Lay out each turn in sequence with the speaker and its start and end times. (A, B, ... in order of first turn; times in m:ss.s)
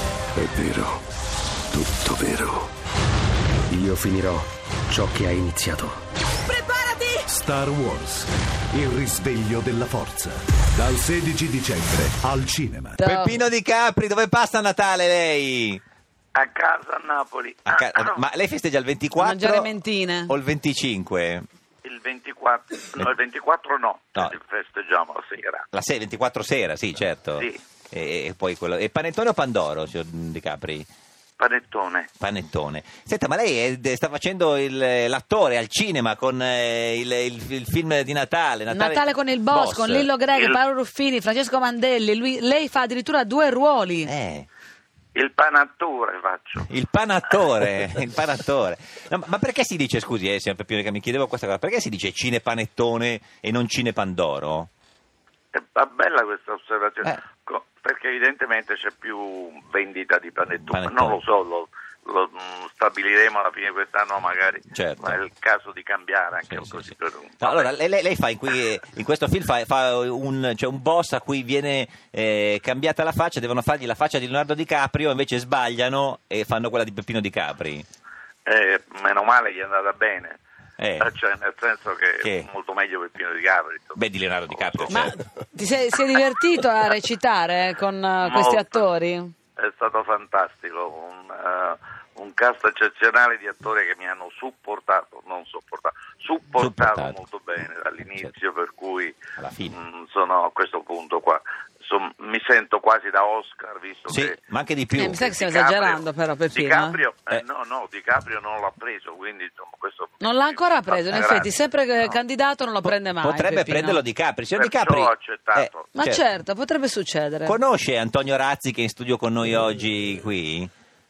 0:00.4-0:01.0 A
0:01.7-0:02.5 A
0:02.1-0:02.5 B
0:03.7-0:06.0 A
0:06.6-0:06.9 C
0:07.2-0:13.0 B
0:13.0-0:15.8 D
0:13.0-0:13.4 C
0:16.3-0:18.2 E
0:17.6-0:19.7 D
0:19.2-0:20.3 C
0:20.3-0:21.4 D
0:21.8-0:25.6 E
0:25.7-0:30.9 D
0:31.4-0:32.1 E
0:32.2-0:40.1 D
0:38.7-0:44.1 C
0:40.3-0:40.6 E
0:44.0-0:44.5 D
0:45.1-0:46.7 E
0:46.6-0:54.7 D
0:55.5-1:07.7 E
1:00.7-1:01.2 D
1:04.7-1:05.2 D
1:06.4-1:17.9 D
1:18.4-1:20.4 E
1:20.8-1:21.1 D
1:21.0-1:25.0 E
1:22.2-1:22.5 D
1:23.9-1:25.2 D
1:24.9-1:29.3 C
1:28.2-1:28.9 E
1:29.6-1:39.2 E
1:36.6-1:37.2 D
1:39.4-1:39.8 D
1:39.7-1:44.4 E
1:44.1-1:45.2 D
1:44.9-1:47.0 C
1:45.0-1:52.2 E
1:50.2-1:54.0 C
1:52.8-1:56.2 D
1:54.6-1:55.9 E
1:55.9-1:57.6 C
1:57.4-2:00.7 D